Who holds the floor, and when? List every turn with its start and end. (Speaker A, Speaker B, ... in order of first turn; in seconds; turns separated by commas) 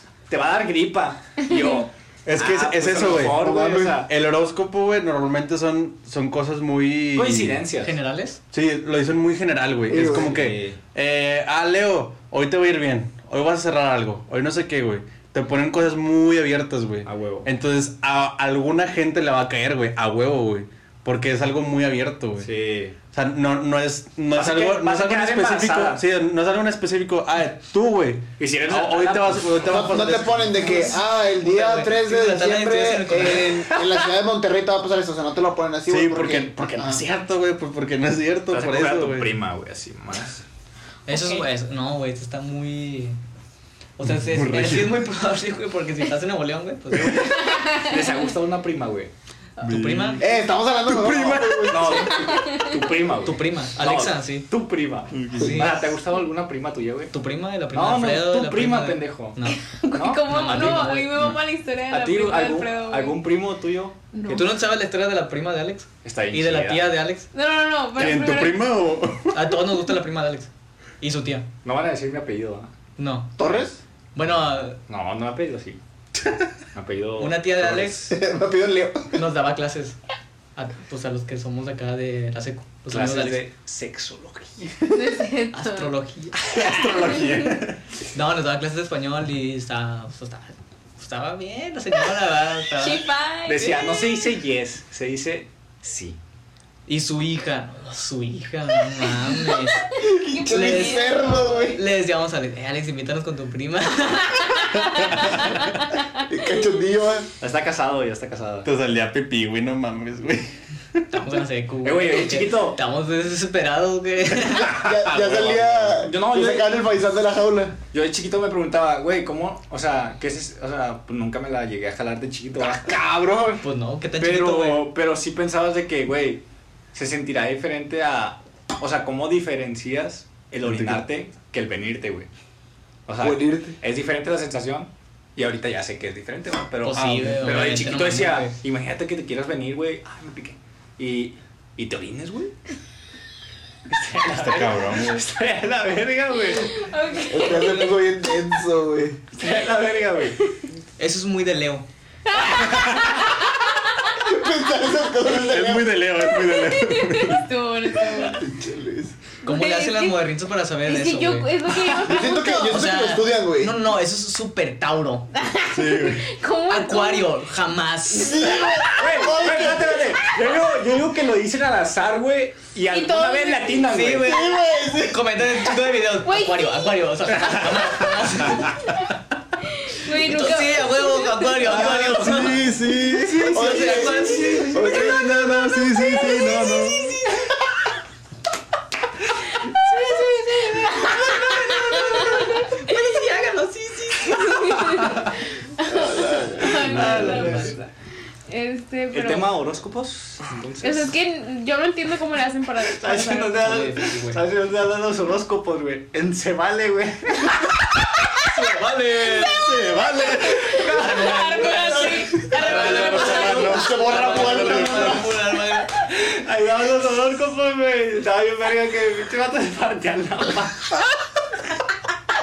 Speaker A: 0.3-4.1, Speaker B: 1.4-1.9, Speaker C: 2.2-7.6, Speaker D: 3.3-4.0, Speaker A: 7.1-7.9, Speaker E: 7.8-8.4, Speaker C: 8.5-22.5, Speaker D: 9.9-10.4, Speaker A: 9.9-10.8, Speaker A: 17.1-17.5, Speaker A: 22.4-22.9, Speaker C: 23.1-30.8, Speaker A: 24.3-26.0, Speaker A: 28.4-30.1, Speaker D: 29.6-37.0, Speaker E: 30.6-33.7, Speaker A: 33.7-34.0, Speaker C: 35.9-39.3, Speaker A: 38.5-40.4, Speaker E: 41.1-43.2, Speaker B: 41.1-41.4, Speaker E: 44.0-47.4, Speaker C: 44.1-45.0, Speaker B: 47.4-48.0, Speaker A: 47.7-49.1, Speaker E: 49.6-50.2, Speaker C: 49.6-52.0, Speaker D: 50.2-52.1, Speaker A: 51.7-57.1, Speaker B: 52.1-52.8, Speaker E: 53.2-54.5, Speaker C: 55.1-55.7, Speaker E: 55.4-55.9, Speaker E: 57.1-59.6, Speaker A: 57.7-59.4, Speaker B: 59.5-63.2, Speaker A: 59.9-61.0, Speaker E: 60.2-61.3, Speaker A: 61.9-64.4, Speaker B: 64.1-64.5, Speaker E: 64.3-67.3, Speaker A: 66.0-66.9, Speaker B: 67.3-68.7, Speaker C: 67.9-69.6, Speaker E: 69.3-70.5, Speaker E: 71.0-71.5, Speaker A: 71.6-72.7, Speaker E: 73.0-73.3, Speaker D: 73.4-73.8, Speaker A: 73.4-73.7, Speaker E: 74.1-74.8, Speaker A: 74.9-75.8, Speaker A: 76.7-78.1, Speaker E: 77.2-78.1, Speaker D: 78.1-79.2, Speaker E: 79.1-80.0, Speaker E: 80.6-83.4, Speaker A: 82.9-84.7, Speaker B: 84.9-85.9, Speaker E: 85.5-86.4, Speaker C: 86.4-87.8, Speaker E: 88.1-93.1, Speaker B: 92.7-94.3, Speaker A: 93.5-96.2, Speaker E: 96.9-104.6, Speaker B: 99.0-101.7, Speaker D: 100.0-101.8, Speaker B: 104.5-105.6, Speaker C: 105.1-105.6, Speaker D: 106.2-107.3, Speaker A: 107.4-108.7, Speaker C: 108.6-111.0, Speaker E: 111.1-114.8, Speaker A: 111.8-112.8, Speaker D: 114.7-117.8, Speaker A: 115.1-116.9, Speaker A: 117.9-123.0, Speaker D: 122.6-123.6, Speaker E: 123.6-124.9, Speaker A: 124.2-132.3, Speaker C: 130.6-131.0, Speaker A: 133.1-142.5, Speaker D: 133.2-133.8, Speaker E: 136.8-138.6, Speaker C: 136.9-137.8, Speaker A: 143.9-146.9, Speaker C: 144.2-145.2, Speaker B: 146.6-148.0, Speaker D: 147.3-149.2, Speaker A: 149.4-150.4, Speaker E: 151.0-151.9, Speaker B: 152.2-154.4, Speaker A: 152.4-153.0, Speaker C: 152.7-153.0, Speaker D: 154.1-156.0, Speaker C: 155.3-157.4, Speaker B: 156.2-158.4, Speaker D: 158.0-159.2, Speaker B: 159.4-160.2, Speaker E: 159.4-161.5, Speaker B: 160.8-162.8, Speaker D: 162.0-163.8, Speaker E: 162.7-165.3, Speaker B: 165.3-167.4, Speaker C: 165.7-166.2, Speaker E: 166.7-168.6, Speaker D: 168.1-170.2, Speaker B: 168.3-169.0, Speaker A: 168.9-174.4, Speaker B: 172.9-173.9, Speaker E: 173.9-178.8, Speaker D: 174.2-175.6, Speaker B: 176.1-177.8, Speaker B: 179.7-181.7, Speaker E: 180.1-185.1, Speaker C: 181.6-183.8, Speaker D: 182.8-185.3, Speaker B: 184.1-187.2, Speaker C: 184.8-187.2, Speaker B: 189.5-193.0, Speaker E: 190.2-195.0, Speaker B: 194.3-197.8, Speaker D: 195.9-196.9, Speaker A: 196.6-197.9, Speaker E: 196.9-197.8, Speaker C: 196.9-197.6, Speaker B: 198.5-199.5, Speaker A: 199.1-201.1, Speaker B: 200.8-203.9, Speaker A: 202.9-207.8, Speaker E: 203.3-204.4, Speaker E: 208.4-209.6, Speaker B: 209.2-213.9, Speaker C: 209.4-210.8, Speaker A: 210.6-215.2, Speaker E: 210.9-215.9, Speaker D: 213.2-215.4, Speaker C: 213.3-213.7, Speaker A: 216.0-220.9